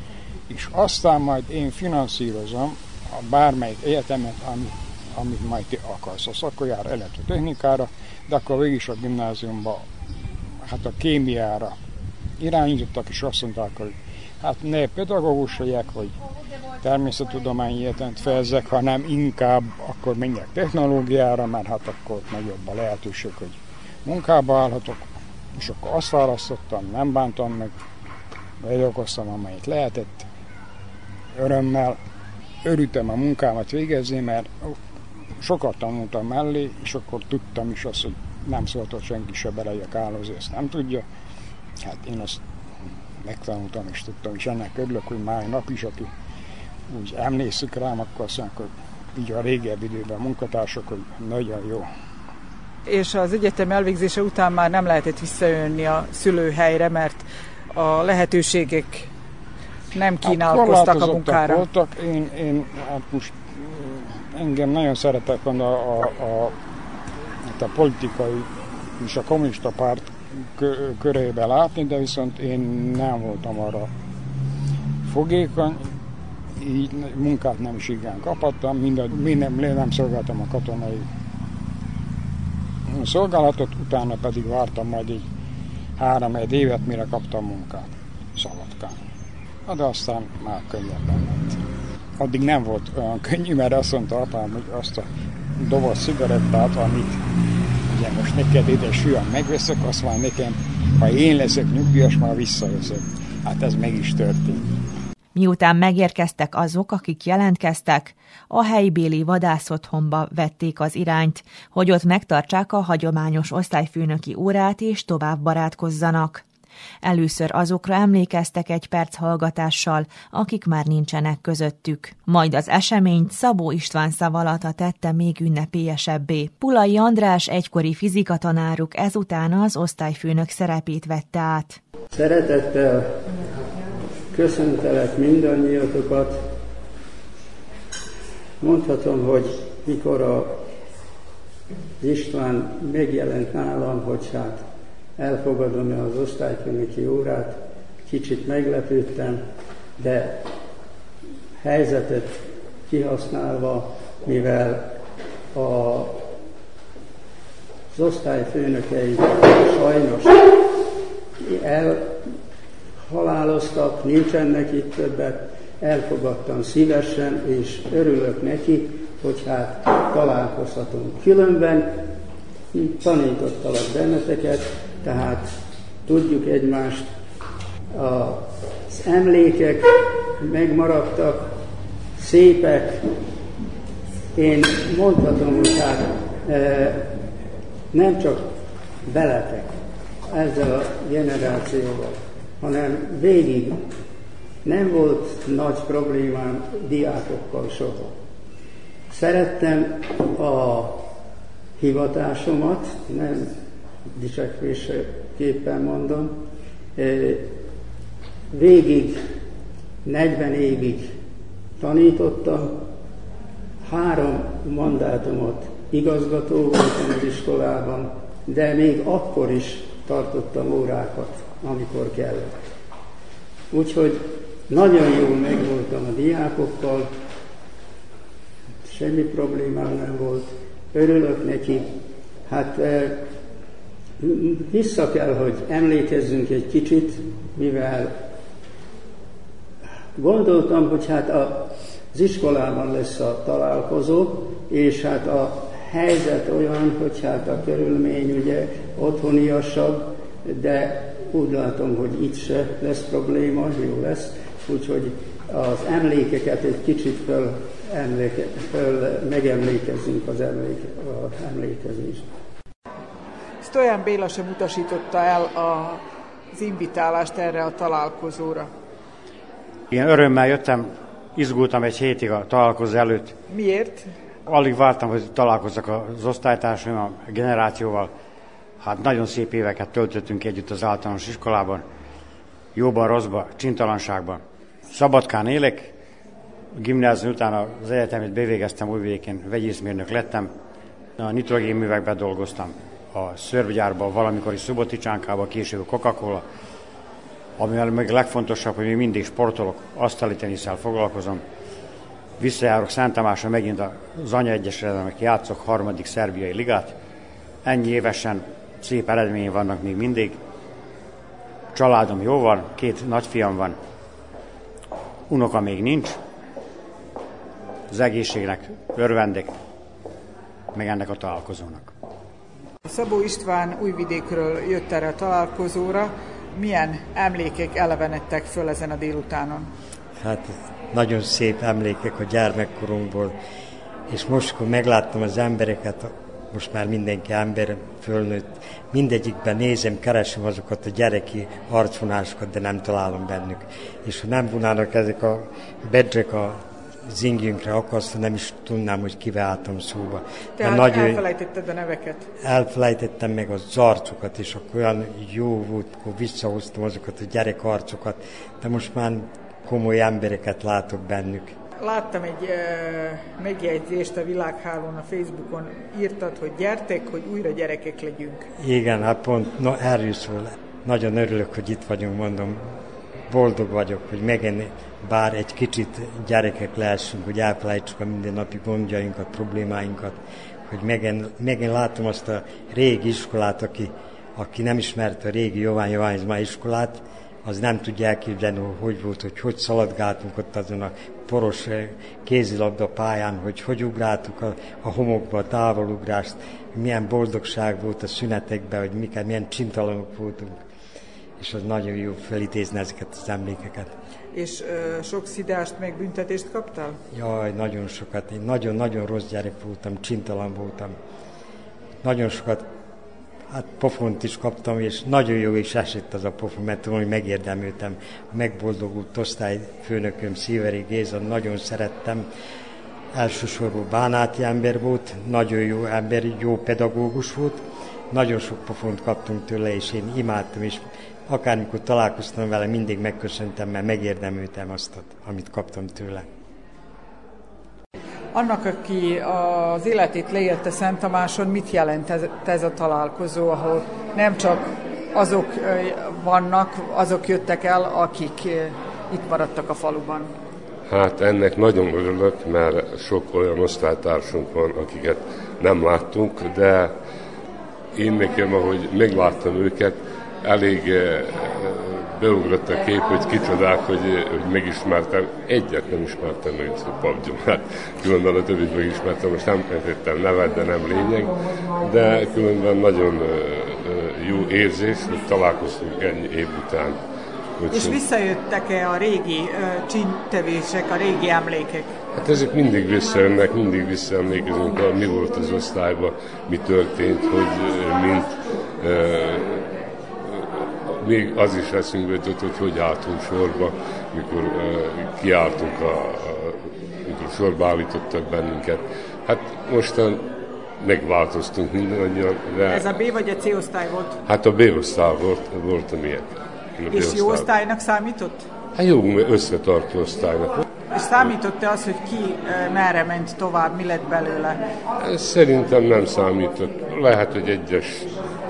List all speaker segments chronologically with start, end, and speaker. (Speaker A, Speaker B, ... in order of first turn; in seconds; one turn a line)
Speaker A: 0.5-9.8
Speaker A: 10.6-11.8
Speaker A: 12.4-16.1
Speaker A: 16.8-27.7
Speaker A: 28.6-30.3
Speaker A: 31.4-32.0
Speaker A: 32.6-34.8
Speaker A: 35.4-41.0
Speaker A: 41.8-42.4
Speaker A: 43.2-46.1
Speaker A: 46.9-51.9
Speaker B: 52.9-59.1
Speaker B: 59.9-61.6
Speaker A: 60.2-66.5
Speaker A: 67.5-73.9
Speaker A: 75.0-75.9
Speaker A: 76.6-81.1
Speaker A: 82.9-85.2
Speaker A: 86.0-89.0
Speaker A: 89.7-91.6
Speaker A: 92.2-95.1
Speaker A: 95.6-97.2
Speaker A: 97.9-104.8
Speaker C: 105.3-116.4
Speaker C: 117.0-131.8
Speaker D: 132.1-136.5
Speaker D: 138.6-140.7
Speaker D: 142.0-149.4
Speaker D: 150.0-150.6
Speaker D: 151.6-156.2
Speaker D: 157.9-160.4
Speaker D: 161.4-162.4
Speaker D: 163.1-172.2
Speaker D: 172.7-177.1
Speaker D: 177.9-183.1
Speaker D: 184.3-187.2
Speaker D: 187.9-193.9
Speaker D: 194.6-198.2
Speaker D: 199.1-201.1
Speaker D: 201.8-206.4
Speaker D: 206.9-207.7
Speaker D: 208.5-209.3
Speaker D: 210.0-211.2
Speaker D: 211.8-212.9
Speaker D: 213.8-222.6
Speaker D: 223.7-227.2
Speaker D: 228.8-233.3
Speaker D: 234.2-238.2
Speaker D: 240.2-262.3
Speaker B: 263.6-266.0
Speaker B: 266.5-268.7
Speaker E: 269.9-273.4
Speaker B: 273.5-274.1
Speaker E: 274.4-278.1
Speaker E: 278.8-281.8
Speaker E: 282.7-285.9
Speaker E: 286.7-290.5
Speaker E: 291.2-296.4
Speaker E: 297.6-301.4
Speaker E: 302.4-306.9
Speaker E: 307.6-310.4
Speaker E: 311.7-313.8
Speaker E: 315.3-316.2
Speaker E: 317.9-319.5
Speaker E: 320.7-321.9
Speaker B: 322.9-329.7
Speaker F: 330.2-333.3
Speaker F: 334.1-346.5
Speaker F: 347.1-351.2
Speaker B: 350.6-352.2
Speaker F: 352.4-361.5
Speaker B: 361.8-368.4
Speaker F: 368.6-372.6
Speaker F: 373.3-380.1
Speaker F: 380.7-400.5
Speaker F: 401.4-403.9
Speaker B: 404.3-407.0
Speaker F: 407.1-410.9
Speaker F: 412.0-412.6
Speaker F: 413.5-422.2
Speaker F: 423.2-427.6
Speaker F: 428.1-436.2
Speaker B: 438.3-450.3
Speaker G: 450.9-456.9
Speaker G: 457.9-477.0
Speaker G: 477.6-478.0
Speaker B: 477.7-481.9
Speaker G: 482.1-489.7
Speaker G: 490.2-500.3
Speaker G: 500.8-502.9
Speaker B: 502.7-504.2
Speaker G: 504.2-507.5
Speaker B: 506.9-508.5
Speaker G: 508.7-510.6
Speaker B: 510.9-514.6
Speaker G: 515.0-518.1